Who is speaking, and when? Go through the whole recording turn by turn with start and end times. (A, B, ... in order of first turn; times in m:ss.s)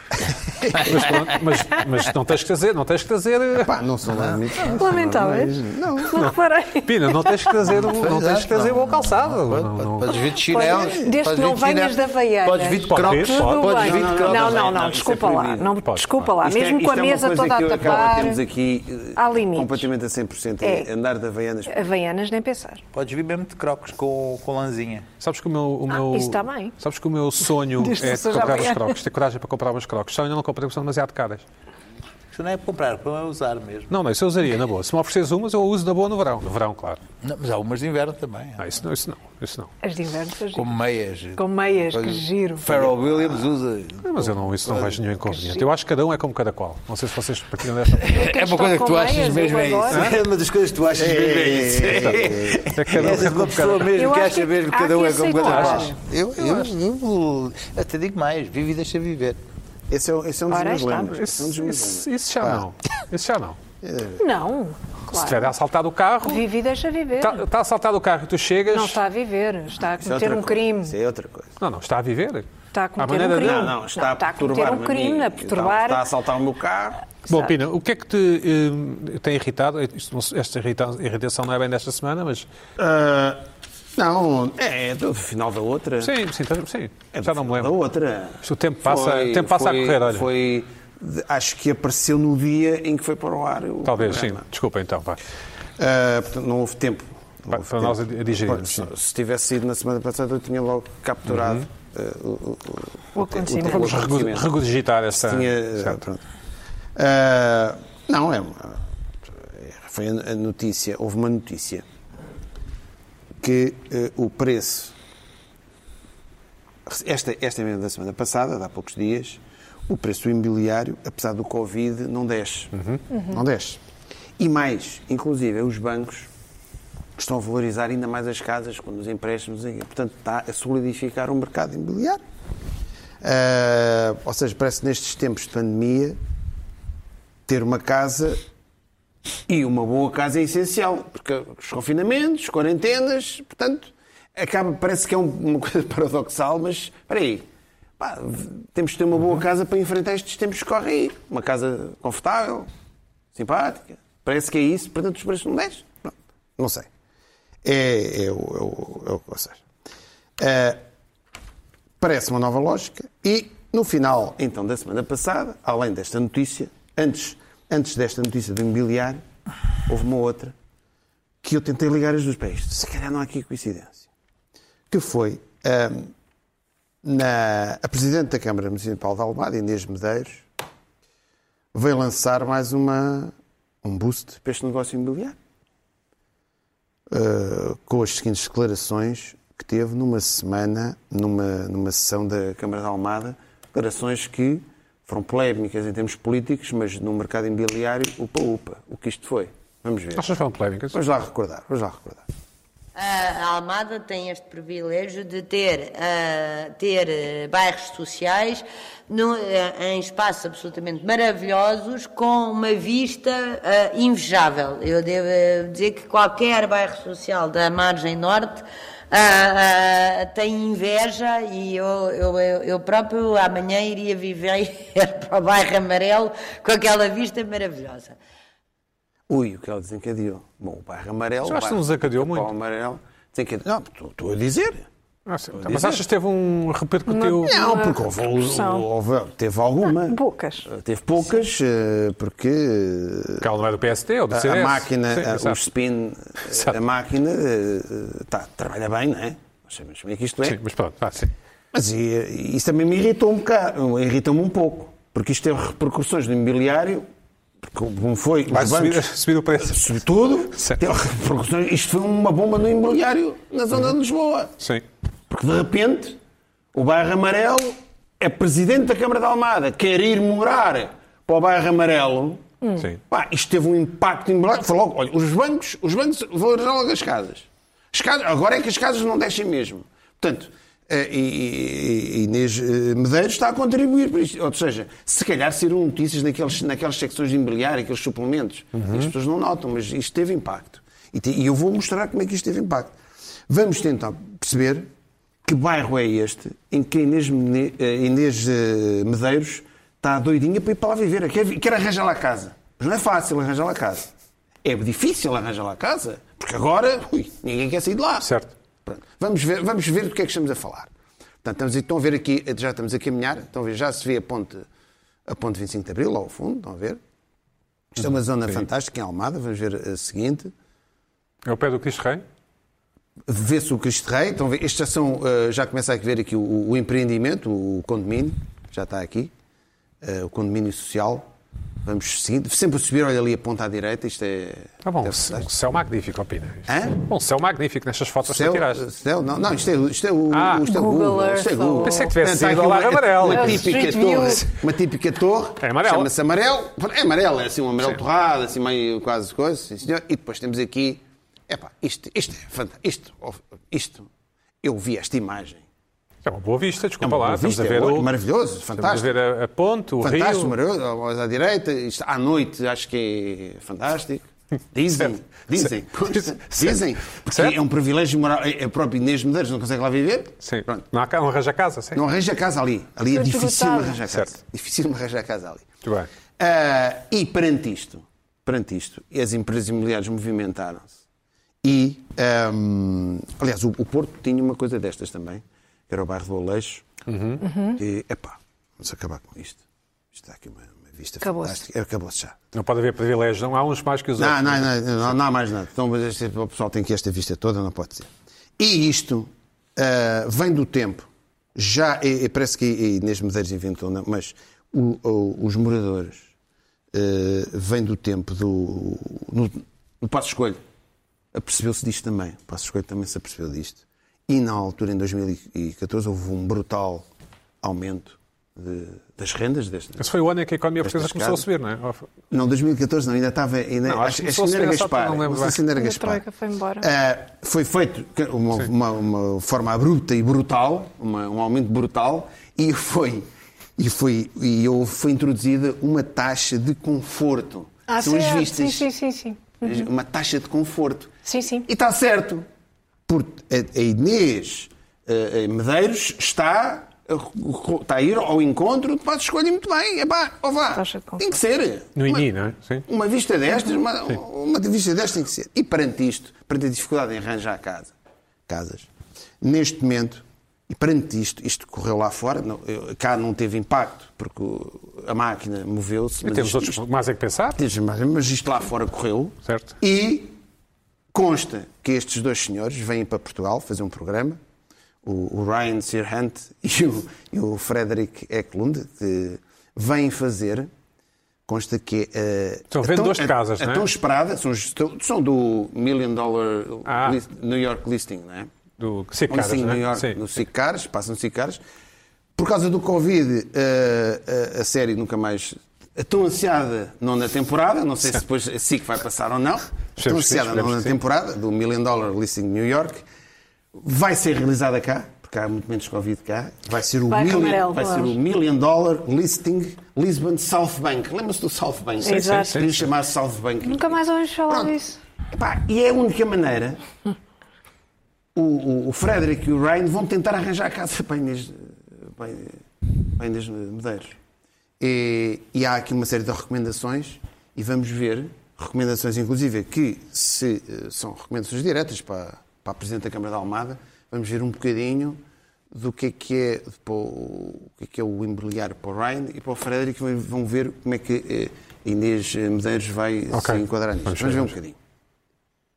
0:00.6-0:03.7 A
0:03.6-0:06.3 B
0:04.7-0:07.5 C
0:06.8-0:10.1 A
0:07.8-0:15.1 D
0:10.1-0:18.4 C
0:10.6-0:11.1 B
0:12.9-0:13.7 A
0:13.8-0:15.7 B
0:15.8-0:16.3 A
0:16.2-0:21.9 B
0:19.2-0:19.9 C
0:20.6-0:20.9 C
0:21.7-0:22.8 C
0:22.9-0:25.1 D
0:25.2-0:31.4 A
0:25.9-0:26.7 C
0:27.8-0:29.0 C
0:32.3-0:33.9 D
0:33.9-0:37.0 A
0:37.2-0:38.7 D
0:38.6-0:39.7 A
0:39.8-0:40.7 C
0:40.5-0:45.1 D
0:41.4-0:42.6 C
0:44.0-0:48.1 A
0:45.3-0:45.6 C
0:47.9-0:59.4 D
0:48.1-0:50.1 C
0:49.9-0:50.1 A
0:51.0-0:53.3 B
0:51.9-0:53.9 A
0:53.9-0:56.0 C
0:55.4-0:56.7 A
0:59.9-1:02.6 B
1:00.5-1:01.2 C
1:01.2-1:03.6 A
1:03.8-1:04.2 B
1:04.2-1:05.5 C
1:05.1-1:06.4 A
1:06.2-1:07.4 C
1:07.2-1:09.0 A
1:08.7-1:10.9 C
1:10.0-1:11.6 B
1:11.6-1:13.7 A
1:12.7-1:16.0 C
1:13.4-1:17.0 B
1:17.3-1:22.5 A
1:22.8-1:23.4 B
1:24.0-1:26.2 B
1:26.0-1:27.7 A
1:27.1-1:34.4 B
1:28.4-1:30.3 A
1:33.8-1:35.2 A
1:35.8-1:44.5 B
1:37.5-1:38.9 A
1:41.3-1:41.6 A
1:43.1-1:44.0 C
1:43.6-1:46.0 A
1:45.1-1:46.2 B
1:47.0-1:51.8 B
1:53.4-1:54.9 B
1:56.8-2:03.8 B
2:02.7-2:03.0 A
2:04.4-2:06.3 B
2:07.2-2:12.2 B
2:13.2-2:16.2 B
2:17.5-2:18.4 B
2:19.5-2:27.5 B
2:28.0-2:32.7 B
2:33.3-2:36.9 B
2:37.6-2:39.6 B
2:40.4-2:40.8 B
2:42.0-2:49.2 B
2:49.9-2:50.5 B
2:51.4-2:54.1 B
2:54.9-2:56.1 B
2:57.0-3:00.4 B
3:01.7-3:05.4 B
3:07.1-3:20.3 B
3:20.1-3:21.0 A
3:20.9-3:22.2 B
3:23.0-3:48.2 E
3:49.3-3:54.9 B
3:51.4-3:52.5 A
3:55.3-3:57.5 A
3:55.5-3:56.0 B
3:57.1-3:58.9 C
3:57.4-4:03.5 B
3:59.9-4:00.7 C
4:03.4-4:05.6 A
4:04.3-4:10.6 B
4:06.5-4:06.8 A
4:10.4-4:11.3 A
4:11.7-4:17.1 B
4:17.6-4:24.5 B
4:18.5-4:19.9 A
4:20.6-4:20.8 A
4:25.3-4:26.2 B
4:26.7-4:32.4 B
4:33.0-4:52.9 B
4:48.7-4:49.1 A
4:53.5-4:54.9 B
4:55.4-5:04.1 B
5:04.6-5:08.3 B
5:08.2-5:08.5 A
5:08.8-5:10.9 B
5:11.4-5:14.6 B
5:15.3-5:17.0 B
5:18.0-5:20.5 B
5:21.4-5:22.2 A
5:23.2-5:29.3 B
5:30.0-5:31.3 B
5:31.8-5:35.5 B
5:34.8-5:38.8 A
5:36.7-5:37.0 B
5:38.2-5:54.1 B
5:40.3-5:40.6 A
5:40.6-5:42.1 C
5:41.8-5:43.8 A
5:43.3-5:44.5 C
5:45.6-5:46.1 A
5:54.6-5:55.6 B
5:56.2-5:58.1 A
5:57.0-5:59.1 B
5:58.7-6:00.6 A
6:00.0-6:10.8 B
6:06.1-6:07.6 A
6:10.4-6:12.0 A
6:11.9-6:15.6 B
6:13.1-6:14.0 C
6:15.8-6:16.1 A
6:16.4-6:21.0 B
6:21.6-6:26.8 B
6:27.1-6:27.4 A
6:27.4-6:27.8 C
6:27.8-6:32.4 B
6:31.2-6:31.6 C
6:32.5-6:35.1 A
6:34.2-6:46.3 B
6:46.9-6:50.6 B
6:51.3-6:57.0 B
6:57.6-7:00.1 B
7:00.0-7:02.1 A
7:00.8-7:01.4 B
7:02.3-7:06.2 B
7:03.9-7:05.6 A
7:05.7-7:06.9 C
7:06.8-7:18.9 B
7:17.9-7:19.8 C
7:19.6-7:21.1 B
7:21.2-7:21.7 C
7:21.6-7:22.4 B
7:23.1-7:32.3 B
7:30.7-7:31.3 C
7:32.0-7:32.8 A
7:32.8-7:37.9 B
7:38.5-7:38.9 B
7:39.4-7:46.8 B
7:46.2-7:47.6 A
7:47.6-7:50.3 B
7:49.4-7:49.8 A
7:51.1-7:54.4 B
7:55.0-8:00.7 B
8:01.5-8:08.5 B
8:02.7-8:03.9 A
8:06.8-8:07.2 A
8:08.8-8:10.2 A
8:09.3-8:11.6 B
8:12.4-8:23.0 B
8:20.0-8:21.0 A
8:23.7-8:34.7 B
8:27.1-8:28.2 C
8:32.0-8:32.7 C
8:32.3-8:32.9 A
8:33.6-8:35.0 C
8:35.3-8:36.8 B
8:38.3-8:42.6 B
8:43.2-8:44.2 B
8:44.8-8:55.2 B
8:55.7-9:04.8 B
9:03.3-9:04.5 A